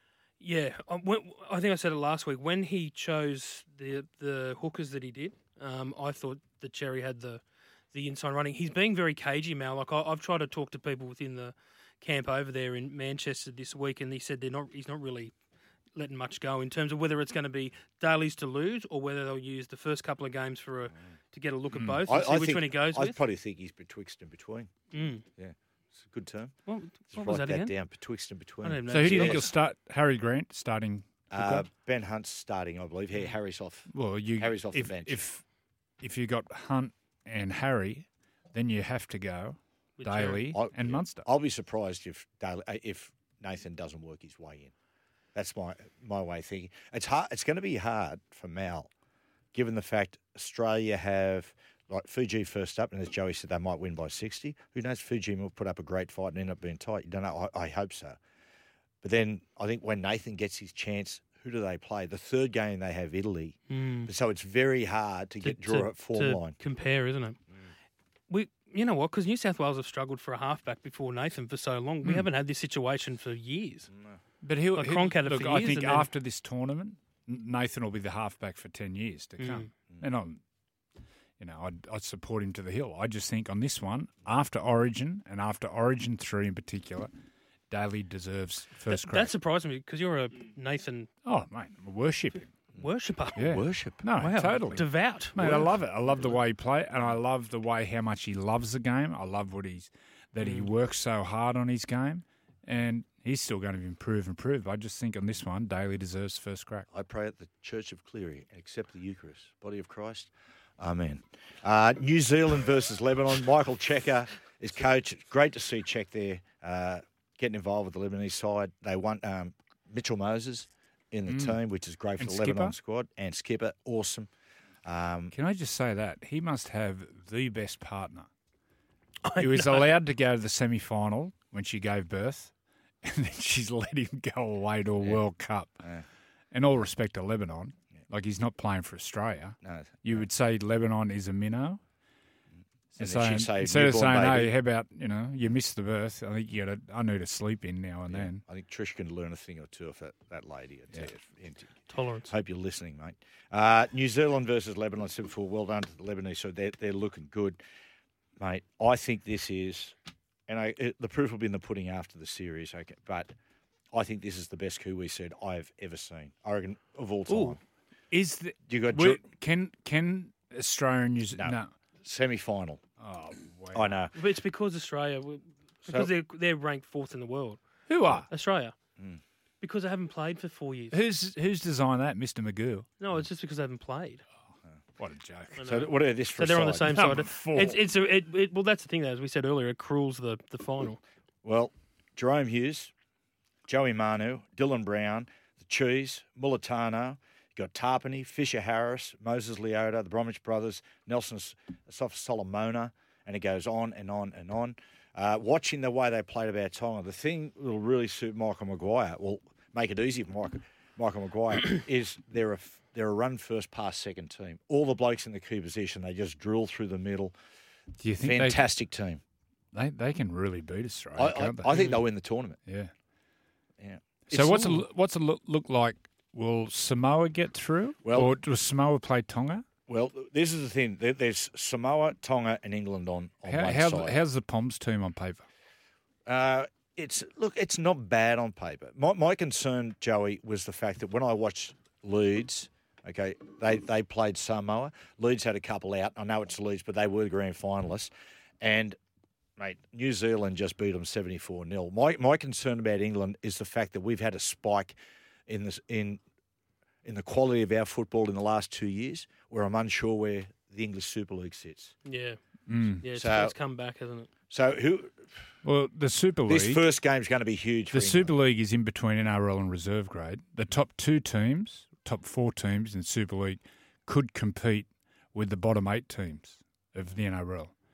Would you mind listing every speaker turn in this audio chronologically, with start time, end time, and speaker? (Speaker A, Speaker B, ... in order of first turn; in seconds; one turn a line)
Speaker A: 0.4-15.3
Speaker A: 15.9-23.2
Speaker B: 21.7-22.0
Speaker C: 22.1-24.7
Speaker A: 24.9-25.2
Speaker C: 25.4-26.5
Speaker A: 26.6-27.7
Speaker C: 27.1-29.5
Speaker A: 28.6-29.5
Speaker B: 28.9-31.7
Speaker C: 31.3-35.2
Speaker B: 33.9-35.4
Speaker B: 36.0-41.2
Speaker A: 40.0-40.4
Speaker C: 40.5-44.7
Speaker C: 45.3-48.9
Speaker C: 49.5-58.2
Speaker C: 59.0-66.6
Speaker A: 63.7-64.1
Speaker A: 65.4-67.4
Speaker A: 68.3-73.9
Speaker C: 73.9-74.2
Speaker B: 74.4-80.4
Speaker A: 74.7-76.1
Speaker A: 79.4-79.7
Speaker B: 81.4-87.1
Speaker B: 87.7-89.3
Speaker A: 88.9-91.1
Speaker B: 91.2-92.5
Speaker A: 92.8-93.4
Speaker C: 93.3-94.0
Speaker B: 93.3-106.8
Speaker A: 94.2-95.7
Speaker A: 100.4-100.7
Speaker C: 106.9-124.3
Speaker B: 121.3-121.6
Speaker B: 122.2-122.7
Speaker C: 124.8-125.3
Speaker B: 125.3-128.3
Speaker A: 129.2-129.9
Speaker B: 129.4-132.5
Speaker B: 133.0-135.8
Speaker B: 136.5-141.8
Speaker C: 139.6-140.3
Speaker B: 142.9-148.4
Speaker C: 143.0-144.5
Speaker C: 148.1-151.8
Speaker A: 151.9-152.3
Speaker C: 152.3-157.6
Speaker C: 158.4-159.9
Speaker C: 160.5-163.3
Speaker C: 163.9-167.6
Speaker B: 168.1-171.7
Speaker C: 168.7-169.2
Speaker C: 171.3-172.8
Speaker B: 173.0-174.0
Speaker C: 173.7-174.1
Speaker A: 174.1-177.6
Speaker C: 175.8-176.1
Speaker B: 177.9-178.3
Speaker A: 178.3-178.7
Speaker A: 179.6-181.0
Speaker B: 180.9-182.9
Speaker A: 183.0-184.2
Speaker B: 185.0-185.6
Speaker A: 185.6-191.0
Speaker C: 185.6-187.2
Speaker B: 186.9-187.8
Speaker C: 191.4-192.9
Speaker C: 193.7-217.3
Speaker B: 218.0-218.6
Speaker C: 218.2-219.2
Speaker B: 219.7-222.0
Speaker C: 221.1-222.6
Speaker B: 222.7-222.9
Speaker C: 223.8-224.8
Speaker B: 224.3-229.6
Speaker C: 228.0-228.3
Speaker C: 229.9-234.2
Speaker B: 233.4-235.4
Speaker C: 236.2-249.0
Speaker C: 249.6-255.0
Speaker C: 255.5-256.2
Speaker C: 257.0-261.9
Speaker A: 262.0-262.4
Speaker B: 262.7-263.0
Speaker A: 263.0-264.3
Speaker C: 263.1-263.6
Speaker C: 264.5-265.2
Speaker B: 265.6-266.8
Speaker C: 266.4-268.3
Speaker B: 267.9-277.7